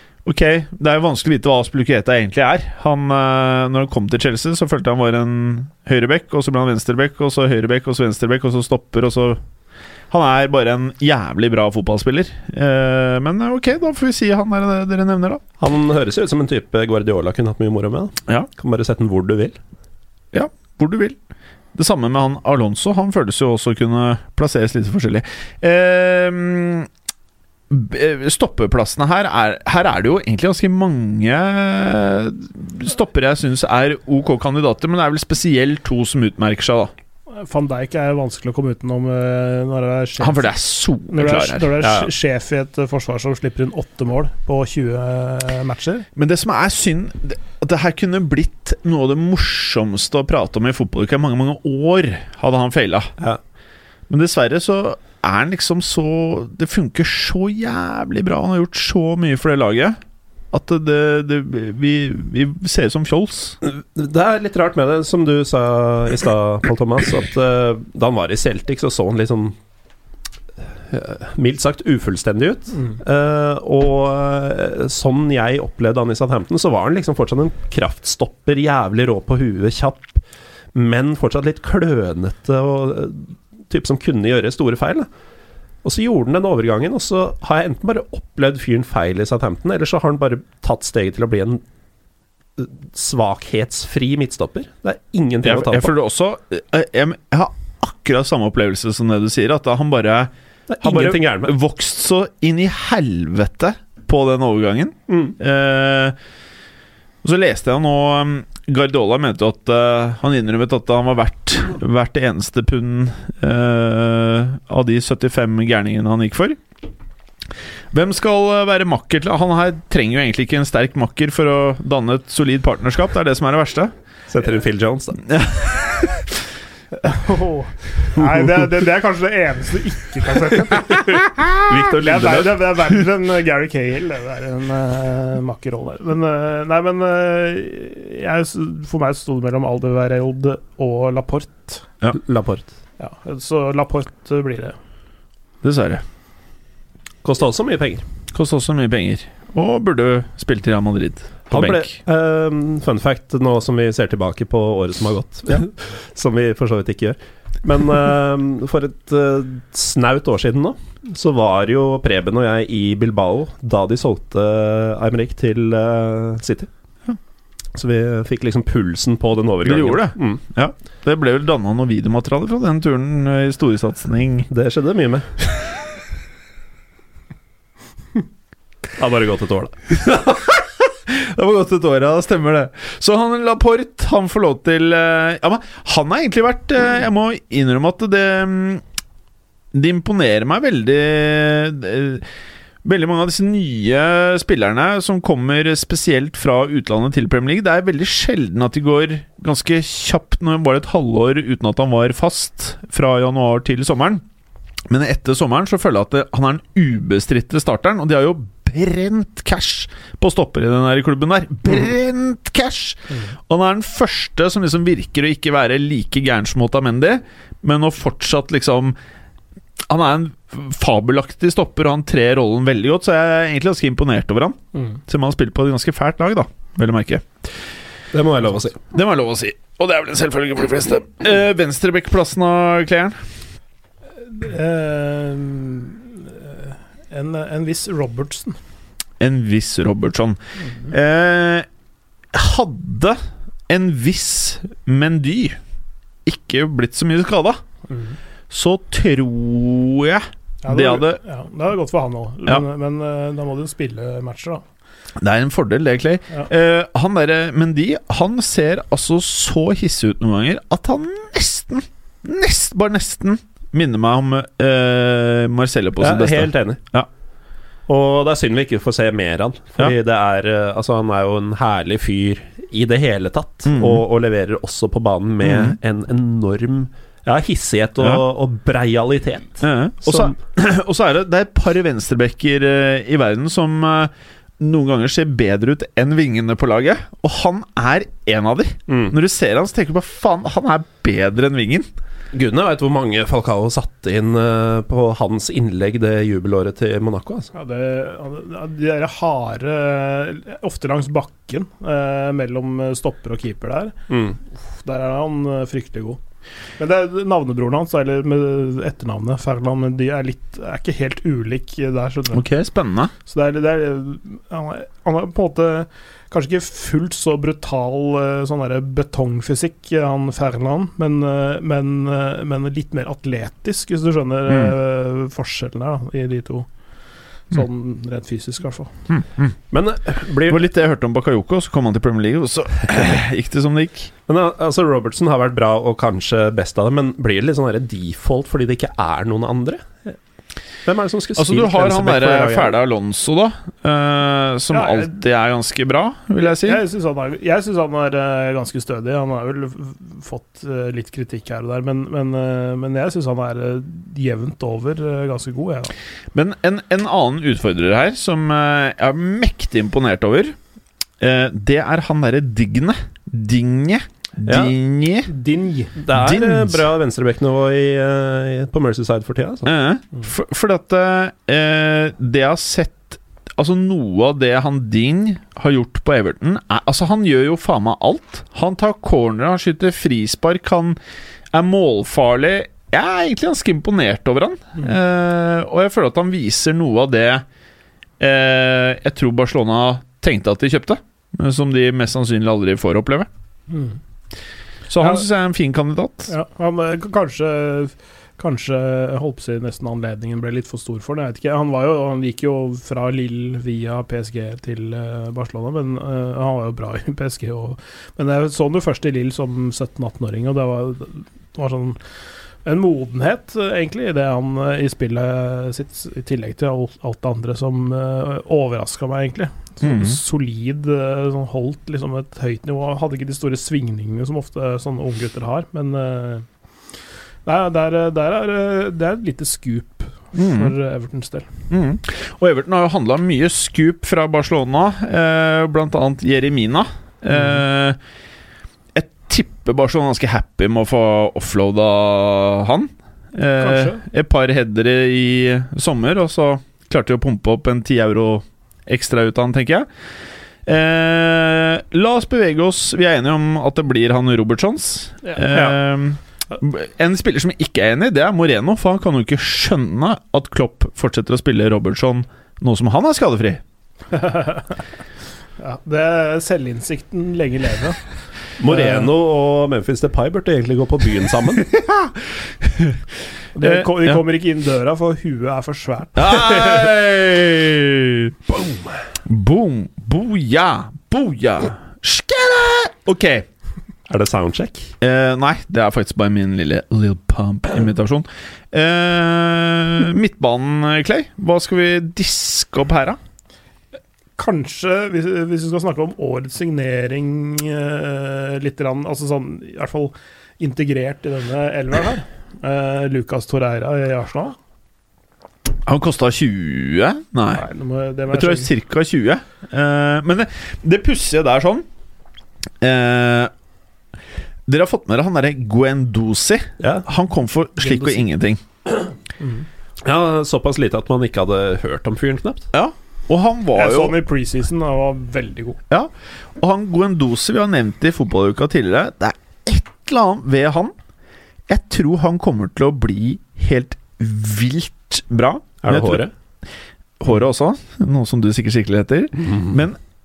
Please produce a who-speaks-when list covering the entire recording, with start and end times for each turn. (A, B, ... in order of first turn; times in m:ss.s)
0:00.2-0:09.4 A
0:10.1-0:15.4 A
0:15.6-0:19.6 B
0:20.3-0:21.2 A
0:21.8-0:26.9 A
0:27.7-0:36.9 A
0:37.3-0:40.5 C
0:40.2-0:41.8 A
0:41.1-0:46.1 C
0:41.8-0:42.1 B
0:46.2-0:53.1 A
0:54.1-1:00.0 A
1:00.5-1:03.6 A
1:03.6-1:09.6 B
1:10.9-1:20.2 B
1:20.7-1:25.1 B
1:25.8-1:31.6 B
1:32.6-1:35.9 B
1:35.4-1:46.2 A
1:40.7-1:41.5 B
1:45.1-1:45.4 B
1:47.2-1:56.6 A
1:57.9-2:03.9 A
2:04.3-2:05.2 B
2:05.3-2:06.3 A
2:07.0-2:11.1 C
2:11.6-2:12.6 B
2:11.9-2:21.8 C
2:22.1-2:22.7 B
2:23.0-2:24.8 C
2:25.6-2:26.0 A
2:27.2-2:28.0 B
2:28.3-2:31.9 A
2:31.5-2:46.7 B
2:47.8-2:50.4 B
2:49.6-2:54.5 A
2:54.5-2:55.3 B
2:59.0-2:59.8 B
2:59.9-3:08.8 A
3:09.7-3:12.3 A
3:12.8-3:24.2 A
3:24.9-3:39.0 A
3:39.9-3:47.3 A
3:48.1-3:48.8 B
3:48.9-3:53.2 A
3:54.3-3:58.6 C
3:59.2-4:01.7 A
4:02.3-4:05.6 A
4:06.2-4:07.6 A
4:07.9-4:08.2 C
4:08.5-4:11.2 A
4:10.6-4:14.6 C
4:15.2-4:27.1 A
4:26.0-4:26.8 B
4:27.9-4:40.3 B
4:33.7-4:34.0 A
4:35.4-4:35.8 A
4:39.6-4:51.9 A
4:48.9-4:49.2 B
4:52.3-4:57.5 B
4:57.5-5:04.0 C
5:04.1-5:04.4 B
5:04.7-5:06.2 C
5:06.8-5:12.4 C
5:12.3-5:13.1 A
5:13.3-5:26.7 C
5:24.5-5:24.7 A
5:27.5-5:28.9 C
5:29.1-5:29.5 A
5:29.7-5:30.7 B
5:30.5-5:34.1 A
5:34.3-5:40.2 B
5:40.8-5:42.7 B
5:41.4-5:46.8 A
5:44.7-5:45.2 C
5:46.4-5:55.9 C
5:56.3-6:00.6 A
6:01.2-6:05.3 A
6:04.4-6:04.8 B
6:05.3-6:05.9 C
6:06.0-6:09.7 B
6:06.1-6:06.8 A
6:09.7-6:21.0 A
6:21.5-6:27.4 A
6:28.2-6:33.3 A
6:33.7-6:34.0 C
6:34.9-6:36.3 A
6:36.3-6:52.0 C
6:52.6-7:06.5 C
6:59.8-7:00.2 A
7:07.4-7:11.5 C
7:10.4-7:10.7 A
7:11.7-7:18.0 A
7:18.9-7:29.9 A
7:23.6-7:24.0 C
7:30.7-7:43.6 A
7:44.1-7:44.8 C
7:45.6-7:48.0 C
7:48.6-7:51.7 B
7:51.7-7:53.0 A
7:53.6-7:56.9 C
7:53.6-7:54.2 A
7:56.2-7:58.6 A
7:59.2-8:03.4 A
8:04.1-8:04.9 B
8:05.0-8:13.2 A
8:14.4-8:24.6 C
8:25.9-8:27.6 A
8:27.5-8:28.7 C
8:28.3-8:31.9 A
8:32.8-8:33.5 A
8:34.7-8:38.6 A
8:36.8-8:37.1 B
8:37.8-8:38.2 C
8:40.0-8:42.7 B
8:42.7-8:44.2 A
8:43.7-8:45.8 C
8:45.9-8:50.9 A
8:51.7-8:56.2 A
8:55.8-8:56.3 B
8:57.2-9:00.0 A